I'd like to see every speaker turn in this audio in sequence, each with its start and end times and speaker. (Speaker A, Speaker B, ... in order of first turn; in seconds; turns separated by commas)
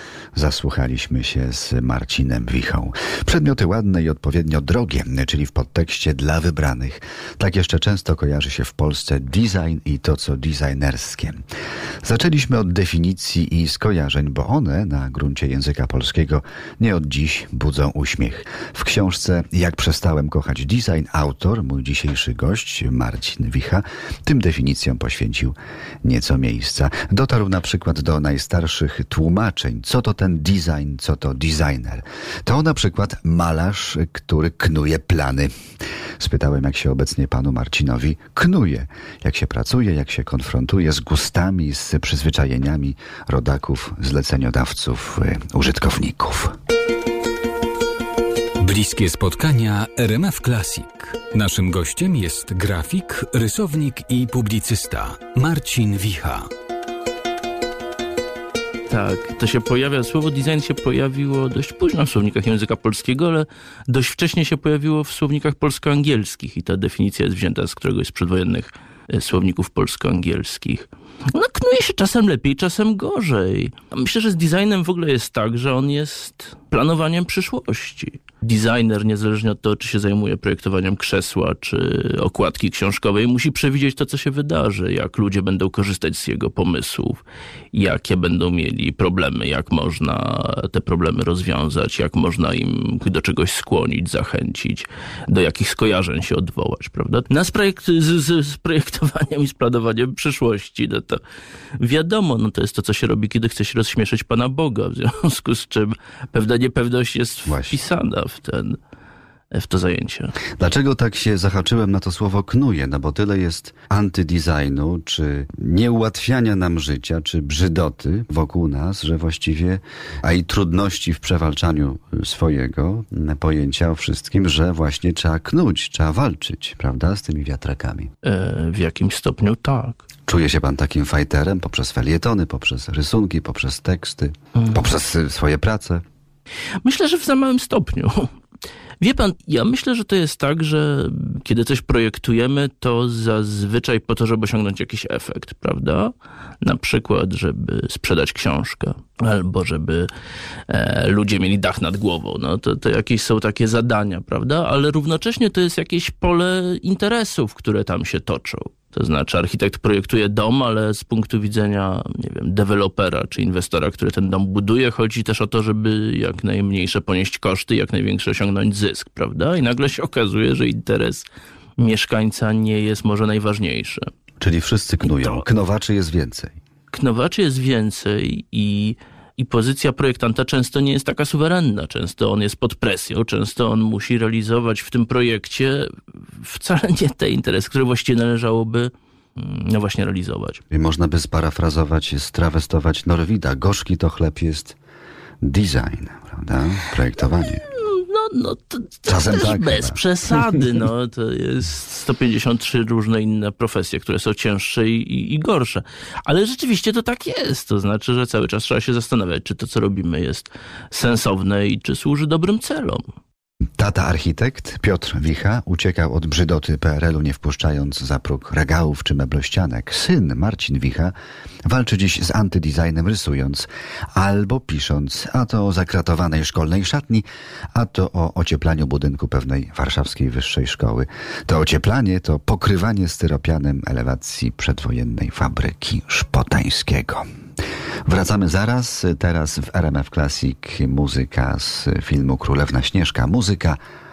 Speaker A: 0.3-11.4, Speaker A: 12.0-35.5, Speaker A: 36.2-46.5, Speaker B: 48.6-56.5, Speaker C: 58.9-101.2, Speaker C: 101.8-108.8, Speaker A: 107.5-107.8, Speaker C: 109.5-110.4, Speaker A: 110.6-128.1, Speaker C: 128.2-130.0, Speaker A: 130.3-136.0, Speaker C: 136.8-138.3, Speaker C: 139.0-150.1, Speaker C: 150.7-171.2, Speaker C: 171.8-174.1, Speaker A: 174.4-176.6, Speaker C: 175.0-175.4, Speaker C: 176.9-190.6, Speaker A: 190.7-194.8, Speaker A: 195.4-197.6, Speaker C: 197.5-213.0, Speaker A: 199.1-200.0, Speaker A: 213.8-221.1, Speaker A: 221.7-237.2, Speaker A: 238.1-243.8